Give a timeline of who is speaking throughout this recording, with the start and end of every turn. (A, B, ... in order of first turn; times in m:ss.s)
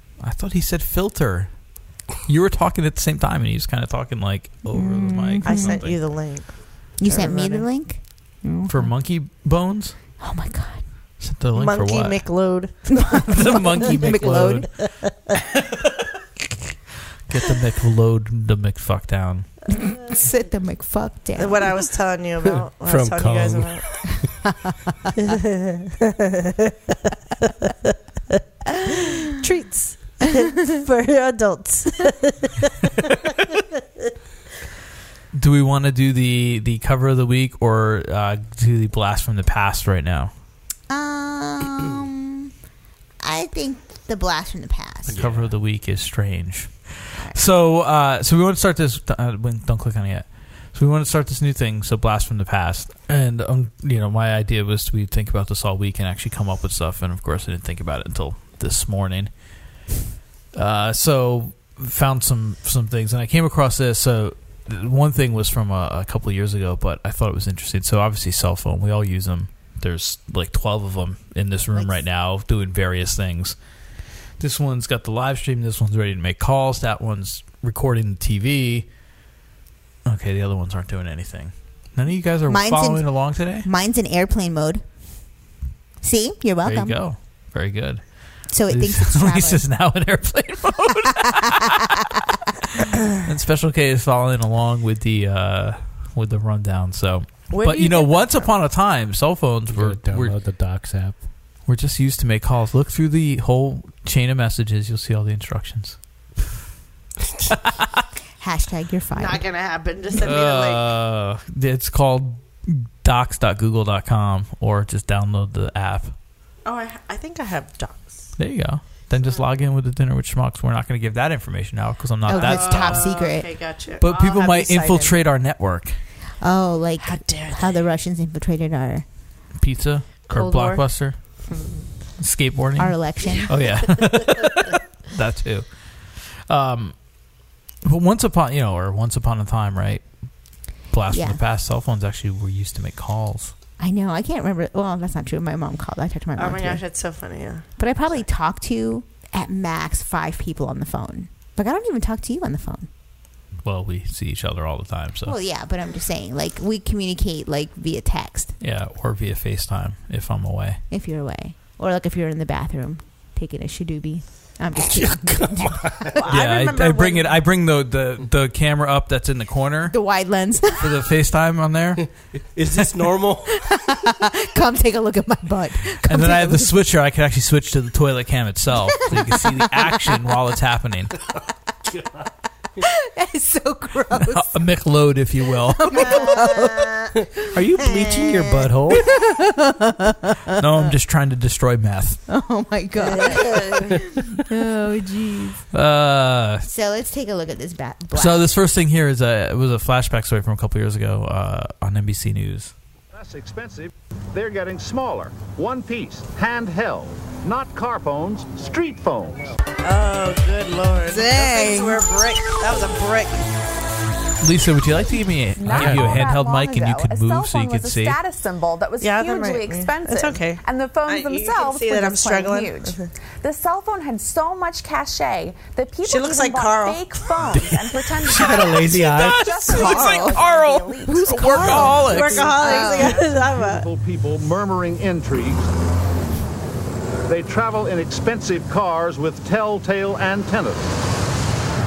0:00.2-0:06.0 A
0:04.6-0:05.8 B
0:05.4-0:07.7 C
0:07.0-0:08.9 B
0:08.7-0:10.0 A
0:10.2-0:10.8 B
0:11.2-0:12.3 A
0:11.5-0:13.6 C
0:13.1-0:14.7 B
0:13.3-0:14.7 A
0:17.3-0:19.5 A
0:19.8-0:21.7 B
0:21.4-0:24.0 C
0:22.8-0:23.8 D
0:25.3-0:25.9 C
0:28.9-0:32.5 C
0:35.3-0:40.3 A
0:40.9-0:42.5 B
0:43.2-0:45.2 B
0:45.1-0:45.5 D
0:45.1-0:59.3 A
1:00.5-1:13.6 A
1:11.7-1:12.0 B
1:14.4-1:18.9 A
1:20.0-1:23.7 A
1:22.5-1:24.8 B
1:26.0-1:27.0 B
1:26.6-1:32.2 A
1:28.5-1:29.6 B
1:32.9-1:40.4 A
1:37.5-1:38.5 C
1:39.7-1:41.2 D
1:41.6-1:46.0 A
1:48.4-1:49.4 B
1:49.2-1:50.8 C
1:50.2-1:56.1 A
1:56.6-1:58.3 C
1:58.4-2:03.1 A
2:02.2-2:03.5 B
2:02.3-2:05.2 C
2:04.0-2:06.0 A
2:06.4-2:09.0 B
2:07.0-2:07.8 C
2:09.6-2:11.5 A
2:10.3-2:11.9 C
2:12.2-2:17.2 A
2:12.8-2:13.6 B
2:17.8-2:20.2 A
2:20.9-2:23.5 A
2:21.1-2:21.4 B
2:23.8-2:26.8 B
2:26.4-2:27.7 C
2:27.8-2:32.9 B
2:33.6-2:35.4 A
2:35.2-2:38.5 B
2:38.6-2:40.8 A
2:40.9-2:46.2 B
2:44.8-2:46.2 D
2:46.2-2:47.4 C
2:46.3-2:49.9 A
2:49.9-2:51.0 B
2:50.8-2:52.0 A
2:52.0-2:53.6 D
2:53.5-2:56.8 B
2:56.1-3:01.1 A
2:59.1-2:59.5 B
3:02.8-3:04.5 B
3:04.3-3:06.3 A
3:05.7-3:10.8 B
3:07.4-3:09.1 D
3:10.6-3:12.2 A
3:12.3-3:15.6 B
3:13.1-3:14.0 C
3:15.7-3:16.6 A
3:16.6-3:18.5 B
3:18.1-3:22.7 A
3:23.1-3:29.4 E
3:29.8-3:33.5 C
3:31.1-3:32.0 B
3:34.4-3:38.2 A
3:35.6-3:52.1 F
3:35.7-3:36.3 D
3:39.0-3:43.1 C
3:46.0-3:47.1 C
3:47.5-3:49.8 D
3:49.6-3:50.4 B
3:50.3-3:52.5 A
3:51.0-3:53.2 B
3:52.0-3:53.9 C
3:53.2-3:55.7 E
3:57.3-4:00.9 E